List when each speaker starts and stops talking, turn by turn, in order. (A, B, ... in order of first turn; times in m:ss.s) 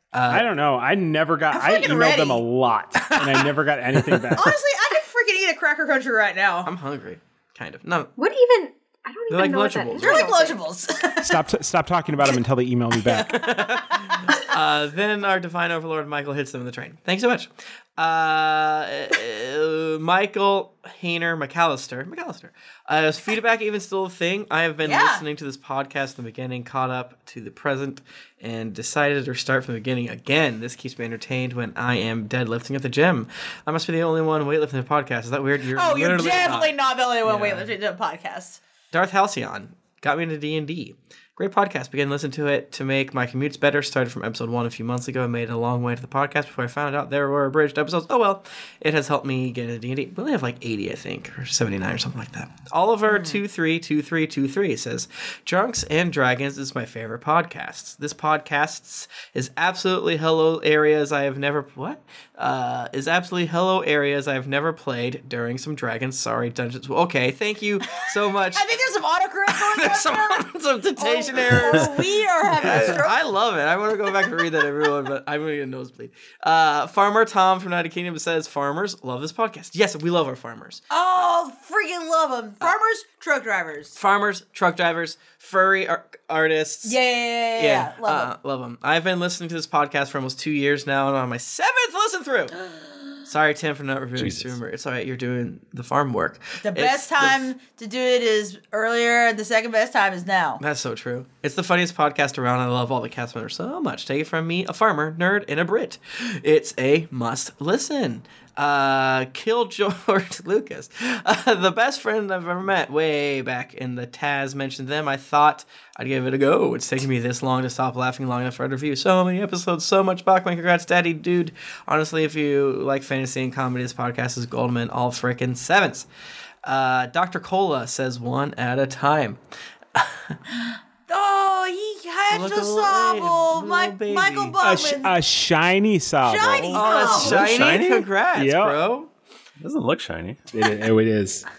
0:00.1-0:00.5 A
0:00.3-0:04.6 B
0:01.5-0:02.4 C
0:03.0-0:03.5 C
0:04.3-0:06.7 C
0:06.6-0:08.1 A
0:08.2-0:10.6 D
0:09.3-0:10.3 A
0:09.9-0:11.4 C
0:11.2-0:13.5 B
0:13.3-0:14.2 C
0:13.3-0:37.7 A
0:24.8-0:25.2 C
0:35.7-0:38.6 C
0:38.9-1:08.7 A
0:53.1-0:53.4 C
1:07.9-1:10.4 C
1:09.5-1:11.9 A
1:11.0-1:13.2 C
1:12.6-1:20.8 A
1:20.9-1:24.0 C
1:24.0-1:27.0 A
1:26.8-1:28.3 C
1:27.5-1:32.5 A
1:33.2-1:37.5 A
1:34.2-1:34.6 E
1:36.6-1:40.6 C
1:40.6-2:06.0 A
2:06.6-2:09.4 A
2:09.9-2:10.4 A
2:11.1-2:15.2 C
2:12.3-2:14.6 A
2:14.6-2:17.1 B
2:16.2-2:17.4 C
2:16.7-2:19.1 A
2:17.0-2:18.1 E
2:18.3-2:18.8 B
2:19.6-2:20.4 E
2:20.5-2:21.4 B